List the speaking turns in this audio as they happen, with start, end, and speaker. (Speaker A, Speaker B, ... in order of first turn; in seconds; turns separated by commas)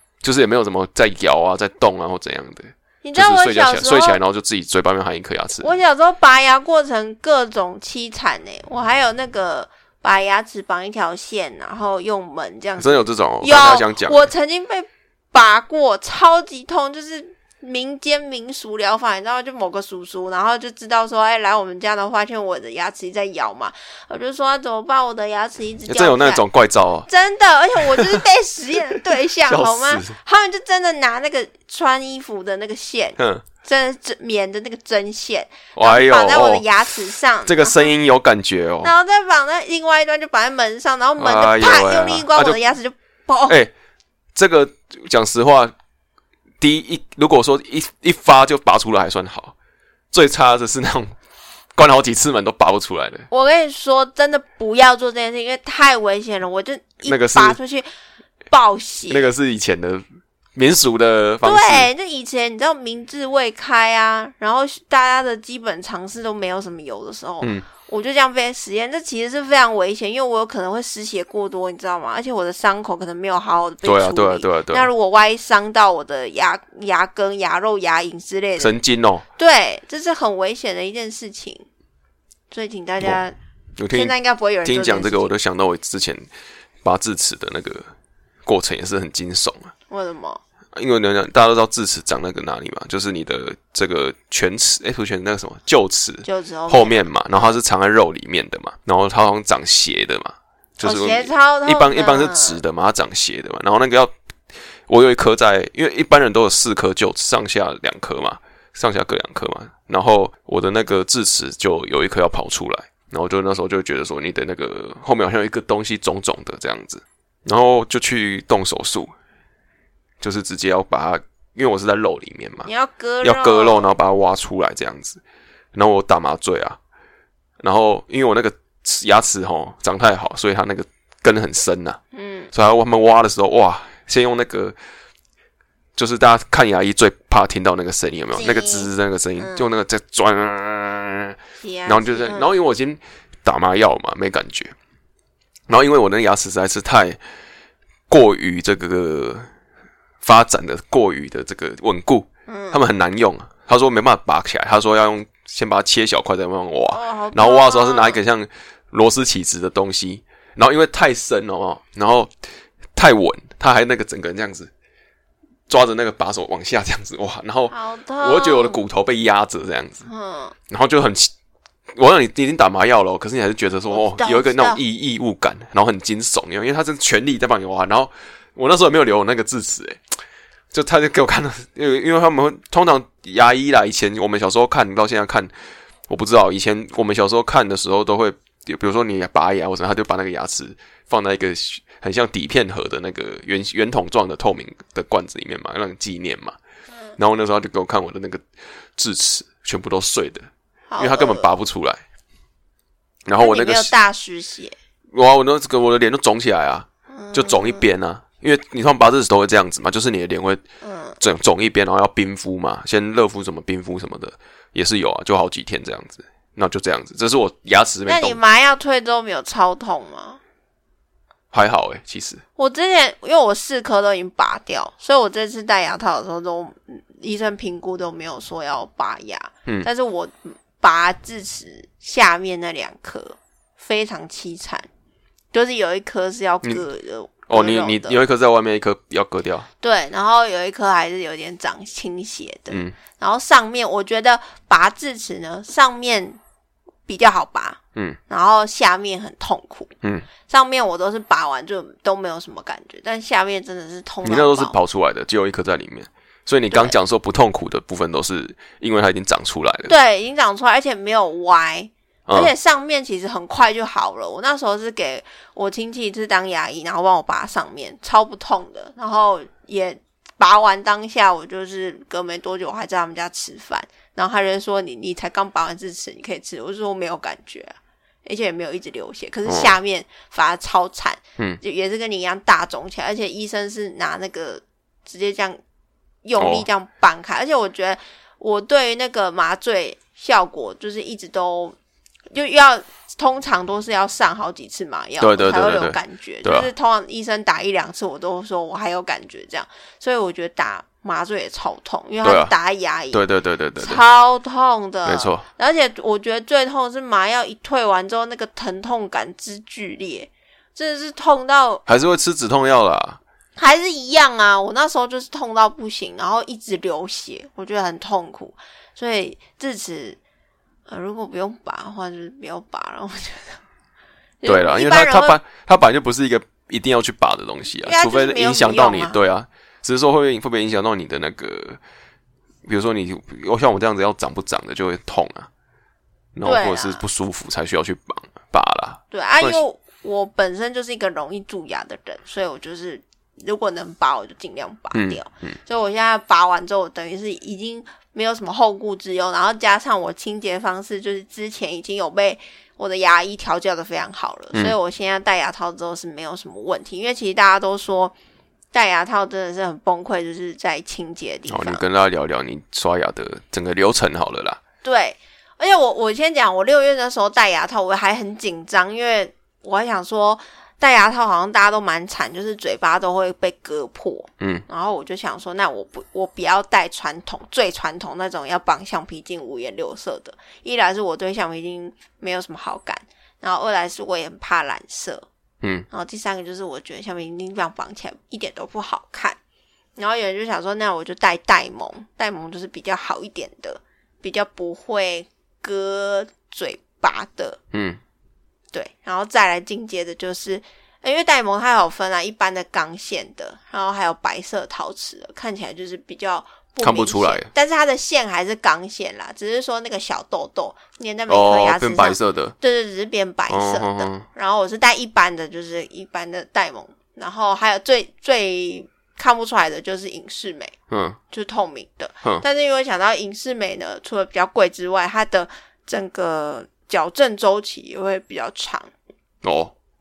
Speaker A: 0.2-5.7, Speaker B: 3.0-4.2, Speaker B: 5.6-26.4, Speaker A: 12.8-14.3, Speaker A: 25.9-27.1, Speaker B: 27.1-37.9, Speaker A: 27.8-28.2, Speaker A: 29.5-30.2, Speaker A: 33.2-33.5, Speaker A: 35.8-36.7, Speaker A: 37.5-38.9, Speaker B: 38.8-43.6, Speaker A: 41.2-42.6, Speaker A: 44.4-45.7, Speaker A: 46.6-49.5, Speaker A: 50.1-51.2, Speaker A: 51.8-53.3, Speaker B: 53.3-57.9, Speaker A: 57.0-57.6, Speaker B: 58.5-59.3, Speaker A: 59.1-61.9, Speaker B: 61.4-78.8, Speaker A: 67.4-67.7, Speaker A: 73.8-74.9, Speaker A: 78.6-79.2, Speaker B: 79.4-81.7, Speaker B: 82.5-83.4, Speaker A: 83.8-86.3, Speaker B: 83.9-85.3, Speaker A: 86.8-87.9, Speaker A: 88.5-89.7, Speaker B: 89.9-90.4, Speaker A: 90.8-104.1, Speaker B: 96.2-97.6, Speaker B: 100.8-102.6, Speaker A: 104.9-119.1, Speaker A: 120.2-122.7, Speaker B: 122.7-123.9, Speaker A: 123.2-125.2, Speaker A: 125.7-126.8, Speaker A: 127.6-132.0, Speaker B: 132.1-132.5, Speaker A: 132.5-134.8, Speaker A: 136.0-144.8, Speaker B: 138.3-139.7, Speaker B: 141.6-142.5, Speaker A: 145.7-147.2, Speaker A: 148.1-149.5, Speaker A: 150.2-164.7, Speaker B: 152.5-152.8, Speaker B: 156.9-158.2, Speaker A: 165.7-170.1, Speaker B: 167.7-168.8, Speaker B: 170.1-170.6, Speaker A: 170.7-171.3, Speaker A: 171.9-180.2, Speaker B: 173.9-174.8, Speaker A: 180.7-185.5, Speaker A: 186.1-196.6, Speaker A: 197.2-202.0, Speaker B: 200.9-201.5, Speaker A: 203.3-203.9, Speaker B: 203.4-204.8, Speaker A: 205.1-210.6, Speaker B: 207.1-207.8, Speaker B: 210.8-211.2, Speaker A: 211.2-218.4, Speaker B: 218.1-220.4, Speaker A: 221.5-222.4, Speaker B: 222.6-234.9, Speaker B: 235.5-238.2, Speaker A: 237.5-239.7, Speaker B: 239.8-246.4, Speaker A: 242.7-243.0, Speaker B: 247.1-249.9, Speaker B: 250.5-254.8, Speaker A: 254.2-259.9, Speaker B: 256.7-256.9, Speaker B: 259.9-285.6, Speaker A: 262.3-262.5, Speaker A: 279.5-279.8, Speaker B: 286.2-291.8, Speaker A: 286.4-286.7, Speaker B: 292.3-303.2, Speaker A: 295.2-296.7, Speaker A: 302.2-302.5, Speaker A: 303.1-304.0, Speaker B: 303.8-311.8, Speaker A: 305.1-305.4, Speaker A: 311.9-313.2, Speaker B: 313.6-320.2, Speaker B: 320.9-323.6, Speaker B: 324.4-325.4, Speaker A: 324.4-331.8, Speaker B: 327.8-329.2, Speaker A: 332.6-335.5, Speaker A: 336.4-339.6, Speaker B: 336.4-337.1, Speaker B: 339.1-358.1, Speaker A: 344.9-345.6, Speaker B: 358.7-361.8, Speaker A: 361.5-364.6, Speaker B: 364.8-385.3, Speaker A: 374.4-374.6, Speaker A: 385.6-385.9, Speaker B: 385.9-389.4, Speaker B: 390.0-397.6, Speaker A: 397.7-398.0, Speaker B: 398.7-420.8, Speaker A: 406.8-407.5, Speaker A: 411.3-412.6, Speaker A: 413.5-414.3, Speaker A: 420.9-421.2, Speaker B: 421.3-428.9, Speaker A: 429.4-429.7